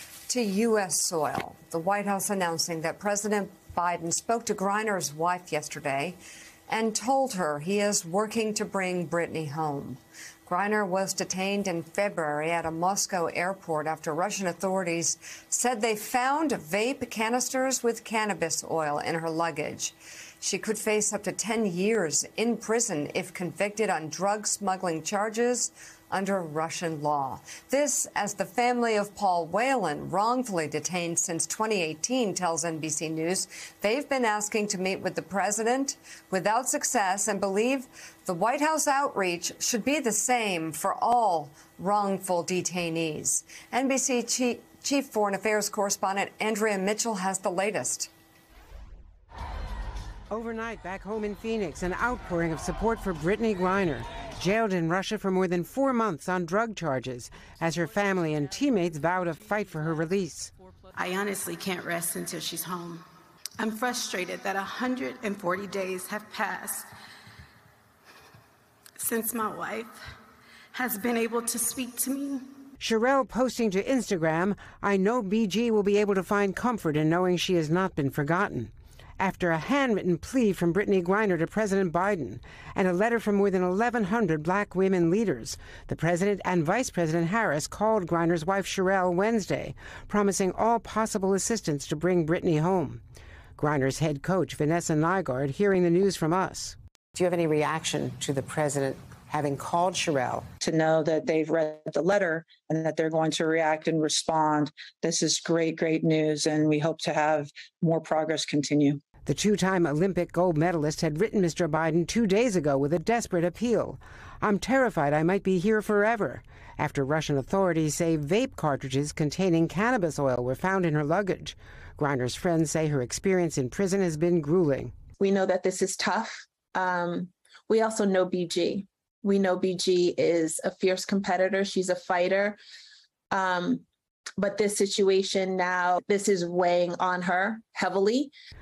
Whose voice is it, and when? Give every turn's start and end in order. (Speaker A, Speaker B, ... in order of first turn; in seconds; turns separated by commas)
Speaker A: 0.3-6.2, Speaker A: 6.7-48.1, Speaker B: 50.3-60.5, Speaker C: 60.9-63.0, Speaker C: 63.6-66.9, Speaker C: 69.0-70.0, Speaker C: 70.7-72.5, Speaker B: 72.8-93.0, Speaker B: 93.6-100.5, Speaker D: 100.6-109.0, Speaker B: 109.2-124.9, Speaker E: 125.2-132.6, Speaker E: 133.3-133.8, Speaker E: 134.4-138.3